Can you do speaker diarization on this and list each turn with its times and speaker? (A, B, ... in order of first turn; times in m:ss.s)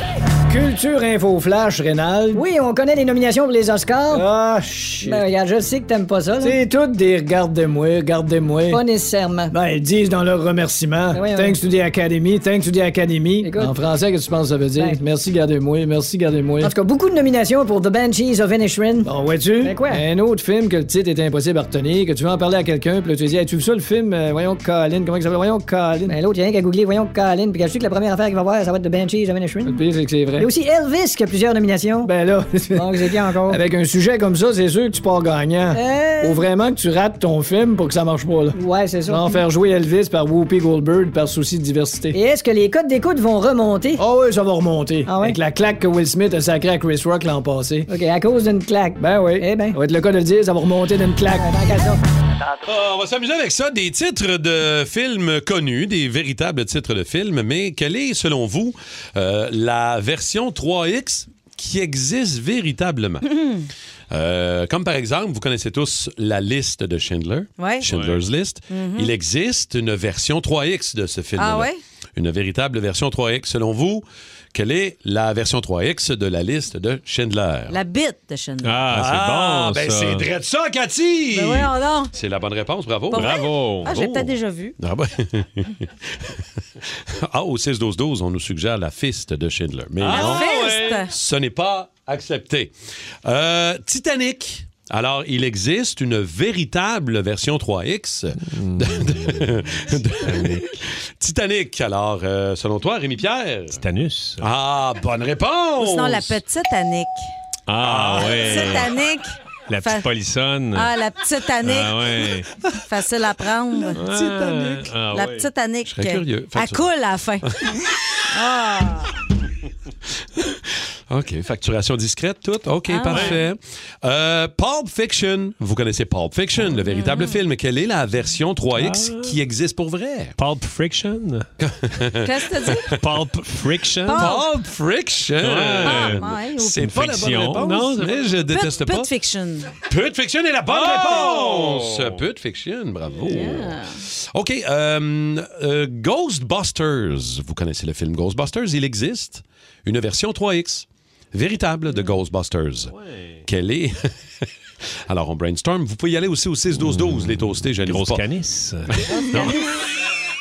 0:00.5-0:02.4 A
0:02.3-0:04.3 B
0:04.1-0:05.3 A
0:05.0-0:06.6 B
0:06.4-0:08.8 A
0:08.7-0:09.5 B
0:09.5-0:16.8 A
0:11.1-0:11.6 B
0:13.4-0:13.8 B
0:14.7-0:15.0 B
0:16.6-0:20.0 B
0:19.0-0:26.2 A
0:26.0-0:29.8 B
0:29.6-0:30.5 A
0:30.4-0:32.1 B
0:32.0-0:42.2 A
0:32.7-0:33.6 B
0:35.7-0:36.5 B
0:38.5-0:39.4 B
0:42.1-0:44.0 B
0:44.0-0:47.9 A
0:45.0-0:45.4 B
0:47.9-0:49.8 B
0:49.0-0:51.9 A
0:51.3-0:52.0 B
0:52.6-1:03.3 C
1:03.2-1:03.7 D
1:04.1-1:17.8 C
1:07.6-1:07.9 D
1:07.8-1:08.2 E
1:08.7-1:09.1 D
1:11.4-1:11.8 D
1:17.7-1:18.8 D
1:18.6-1:20.3 E
1:18.9-1:26.4 C
1:21.3-1:22.1 D
1:23.1-1:24.8 D
1:23.1-1:23.9 E
1:26.9-1:32.7 C
1:30.0-1:30.9 E
1:30.1-1:31.1 D
1:33.2-1:43.8 C
1:38.4-1:40.8 E
1:43.7-1:44.5 E
1:44.4-1:46.4 C
1:45.8-1:47.3 D
1:47.7-1:48.9 E
1:47.8-1:48.7 C
1:48.2-1:50.1 D
1:49.7-1:50.9 E
1:50.7-1:52.0 D
1:51.6-1:52.5 E
1:52.8-1:54.0 D
1:53.9-1:55.5 E
1:55.0-1:57.5 D
1:55.8-1:56.9 C
1:57.5-1:57.7 C
1:58.3-1:59.2 D
2:00.4-2:10.4 C
2:02.9-2:03.4 D
2:03.1-2:03.4 E
2:06.9-2:07.4 D
2:08.7-2:09.4 E
2:10.4-2:11.5 E
2:11.6-2:12.9 C
2:12.2-2:12.9 D
2:13.0-2:14.4 E
2:14.0-2:14.4 D
2:14.1-2:19.1 C
2:15.4-2:18.2 E
2:15.8-2:16.9 D
2:18.4-2:19.7 D
2:19.8-2:32.9 C
2:20.6-2:22.2 E
2:23.3-2:24.0 D
2:32.9-2:33.4 E
2:33.4-2:34.1 C
2:35.1-2:38.2 C
2:36.8-2:39.6 E
2:39.1-2:39.6 D